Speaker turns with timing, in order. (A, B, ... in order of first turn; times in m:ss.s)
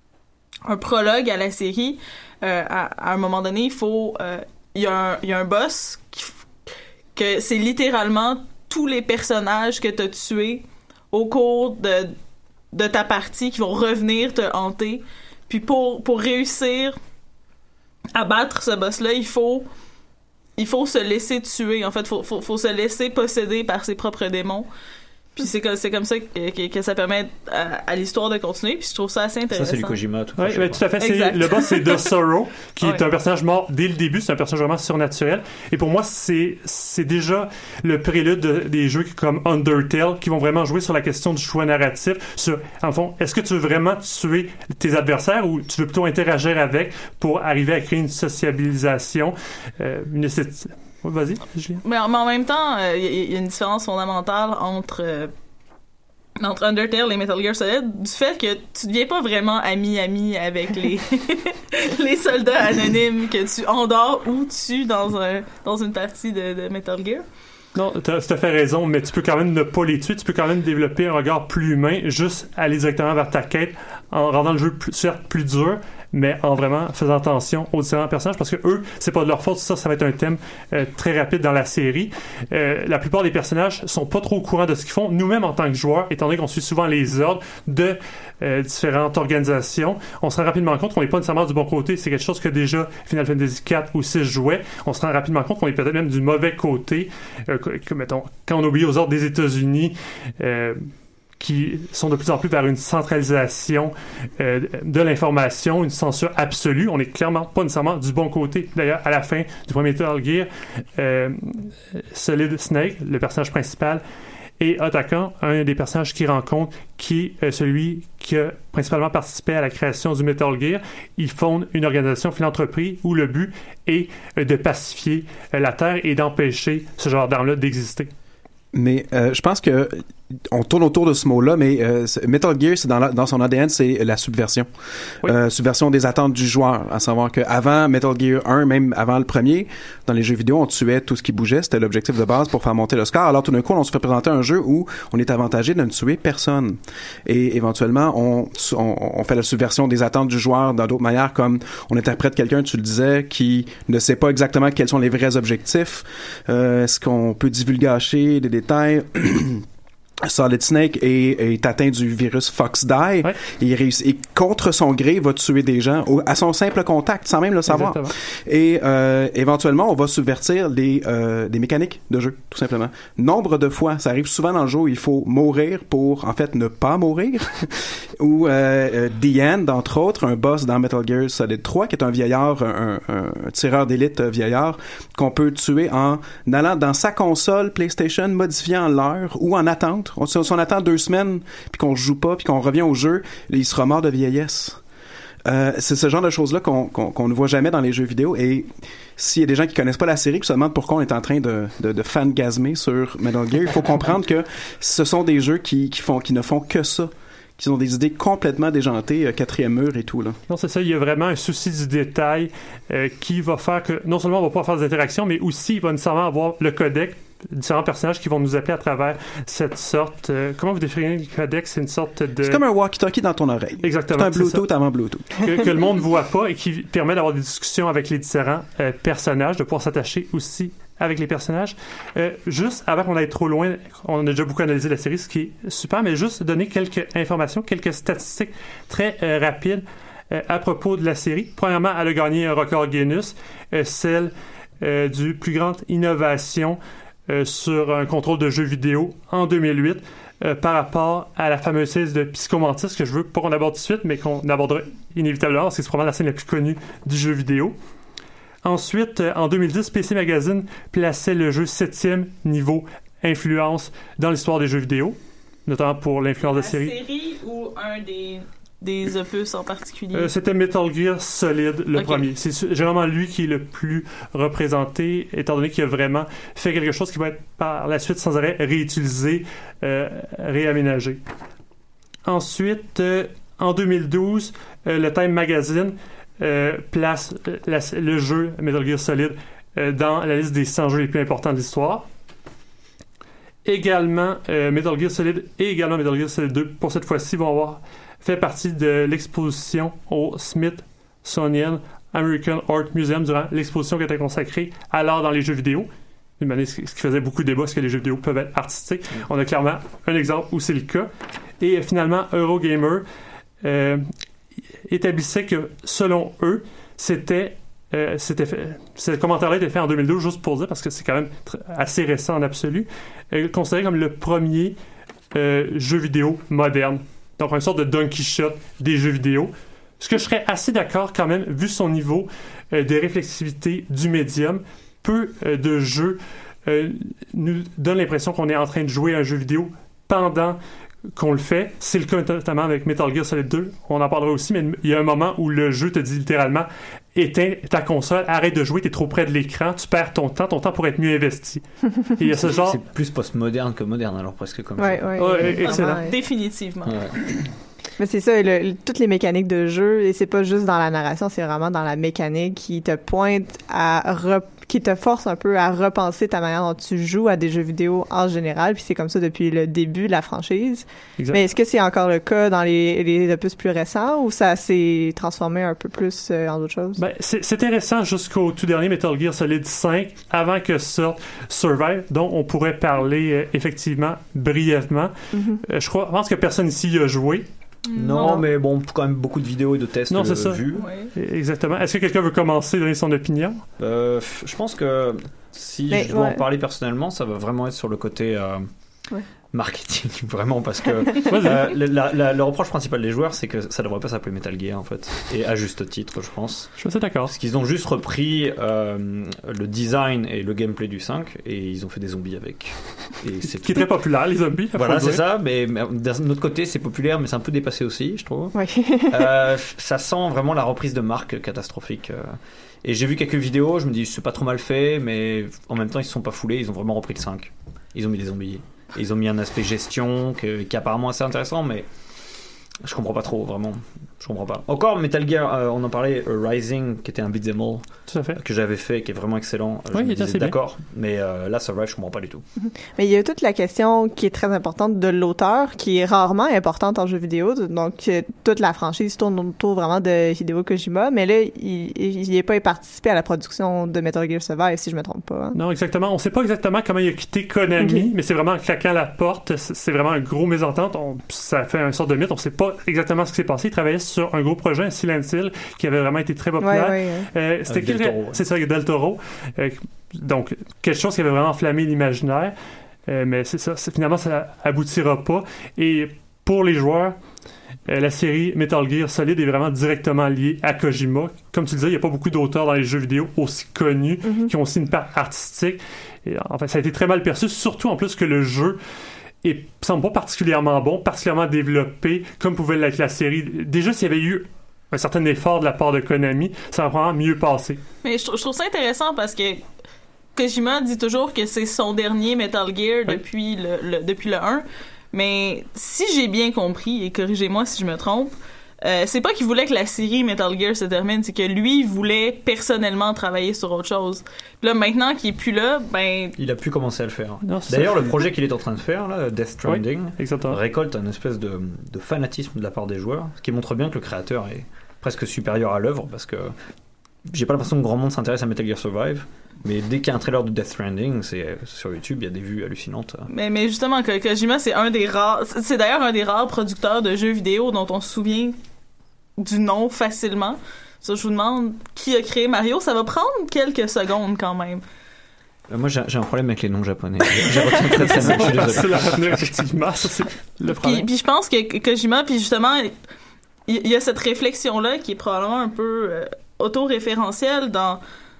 0:00.7-0:06.3 A
0:07.2-0:12.2 A
0:12.7-0:17.0 A
0:18.2-0:19.7 A
0:20.6-0:24.7 A
0:25.4-0:30.0 A
0:29.5-0:30.8 B
0:30.4-0:51.8 C
0:31.0-0:32.1 A
0:51.8-0:55.3 A
0:56.4-1:07.2 A
1:07.8-1:40.8 C
1:41.4-1:54.0 C
1:54.6-2:08.1 C
2:08.7-2:14.7 D
2:15.2-2:39.6 D
2:40.2-3:14.8 D
2:47.7-2:48.1 C
3:15.4-3:30.4 D
3:30.5-3:42.6 C
3:42.4-3:45.5 D
3:43.8-3:44.7 C
3:45.3-4:17.8 C
4:18.6-4:25.2 C
4:25.7-4:27.0 C
4:26.4-4:30.3 A
4:30.1-4:41.2 C
4:32.0-4:32.3 A
4:42.3-4:52.1 C
4:53.7-5:05.9 C
5:06.4-5:11.1 C
5:11.6-5:13.0 C
5:13.6-5:14.1 C
5:14.9-5:24.8 C
5:25.3-5:40.6 C
5:41.2-5:51.6 C
5:52.2-5:52.8 C
5:52.4-5:55.5 B
5:54.8-5:56.1 E
5:55.2-5:56.0 C
5:55.6-5:57.0 A
5:56.8-5:57.2 B
5:58.0-6:17.0 E
6:17.0-6:25.1 C
6:25.3-6:25.6 E
6:25.7-6:27.5 C
6:27.9-6:28.4 A
6:28.0-6:30.8 B
6:30.1-6:30.6 C
6:30.8-6:31.1 A
6:31.2-6:33.6 C
6:33.8-6:38.7 B
6:35.9-6:36.4 E
6:39.5-6:46.7 B
6:41.3-6:41.7 C
6:46.8-6:47.3 C
6:47.3-6:53.9 B
6:53.6-6:55.2 C
6:54.8-6:58.6 B
6:58.6-6:59.3 E
6:59.1-7:11.9 B
7:12.8-7:22.4 B
7:18.1-7:18.4 C
7:19.9-7:20.6 C
7:22.6-7:35.6 E
7:35.6-7:52.6 C
7:37.8-7:38.0 E
7:46.6-7:47.3 E
7:47.7-7:48.4 B
7:53.1-7:57.2 C
7:57.9-8:08.8 C
8:04.3-8:04.5 E
8:09.4-8:17.8 C
8:18.0-8:19.6 A
8:20.4-8:36.4 A
8:36.4-8:46.5 B
8:37.4-8:38.2 C
8:39.6-8:40.6 C
8:47.3-8:53.3 B
8:53.3-8:58.6 A
8:59.4-9:04.8 A
9:05.7-9:09.5 B
9:08.0-9:11.1 C
9:10.8-9:12.9 A
9:13.7-9:18.0 A